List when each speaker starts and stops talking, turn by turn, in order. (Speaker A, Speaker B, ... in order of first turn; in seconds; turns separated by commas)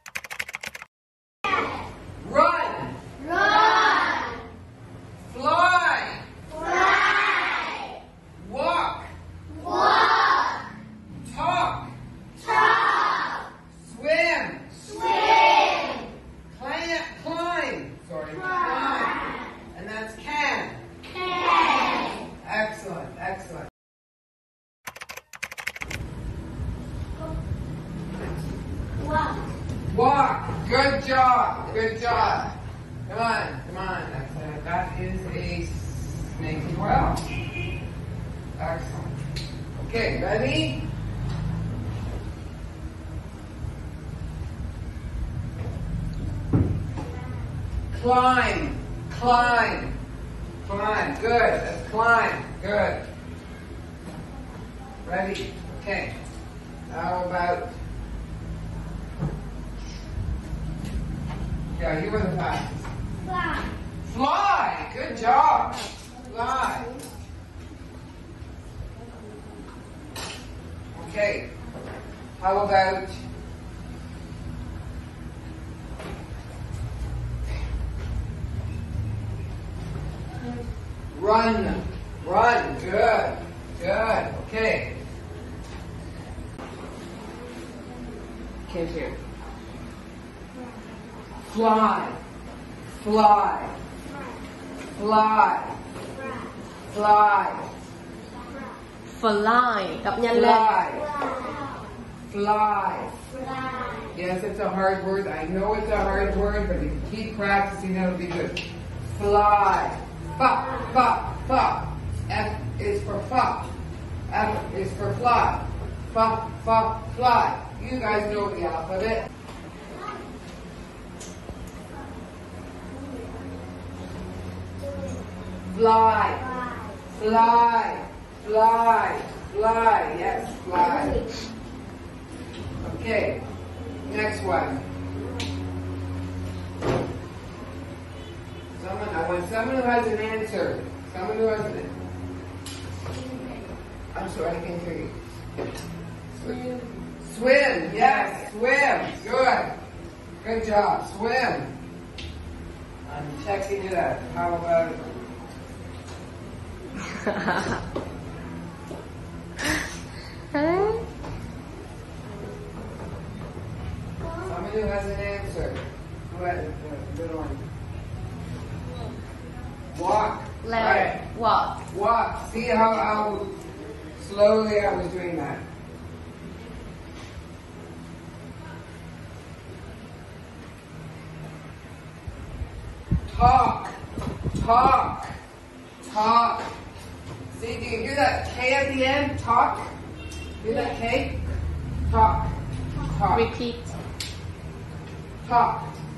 Speaker A: 2.2-3.0, Speaker B: 3.2-4.4, Speaker A: 5.2-6.2, Speaker B: 6.5-7.8, Speaker A: 8.4-9.1, Speaker B: 9.6-10.6, Speaker A: 11.2-11.9, Speaker A: 13.8-15.1, Speaker B: 15.2-16.0, Speaker A: 16.5-20.8, Speaker B: 21.4-21.9, Speaker A: 22.4-23.7, Speaker B: 29.0-29.5, Speaker A: 29.9-32.5, Speaker A: 33.0-37.3, Speaker A: 38.6-39.1, Speaker A: 39.8-40.9, Speaker A: 47.9-50.0, Speaker A: 50.6-53.0, Speaker A: 55.0-56.1, Speaker A: 56.9-57.7, Speaker A: 61.7-62.9, Speaker B: 63.3-63.6, Speaker A: 64.0-67.0, Speaker C: 65.1-65.9, Speaker A: 70.9-71.5, Speaker A: 72.4-73.2, Speaker A: 81.1-85.0, Speaker A: 88.7-89.2, Speaker A: 91.4-92.2, Speaker A: 92.9-93.8, Speaker B: 94.1-94.4, Speaker A: 95.0-95.8, Speaker B: 96.1-96.5, Speaker A: 96.9-97.7, Speaker B: 98.5-98.8, Speaker C: 99.1-100.7, Speaker A: 100.3-101.1, Speaker B: 100.9-101.9, Speaker A: 102.3-103.1, Speaker B: 103.3-104.1, Speaker A: 104.1-113.7, Speaker A: 114.3-119.2, Speaker A: 125.7-126.4, Speaker B: 126.5-127.0, Speaker A: 127.1-131.2, Speaker A: 132.8-133.4, Speaker A: 134.0-134.8, Speaker A: 138.7-141.9, Speaker A: 144.1-145.1, Speaker A: 146.3-149.8, Speaker C: 148.0-148.4, Speaker A: 150.4-151.7, Speaker A: 153.1-155.1, Speaker C: 157.2-157.8, Speaker C: 160.5-161.0, Speaker A: 164.4-167.7, Speaker A: 169.9-171.2, Speaker C: 170.6-171.8, Speaker A: 171.9-173.5, Speaker A: 174.2-175.6, Speaker A: 183.3-183.9, Speaker A: 184.6-185.3, Speaker A: 186.0-186.7, Speaker A: 187.5-189.9, Speaker A: 190.6-191.4, Speaker A: 192.0-193.5, Speaker C: 193.3-193.9, Speaker A: 195.4-196.0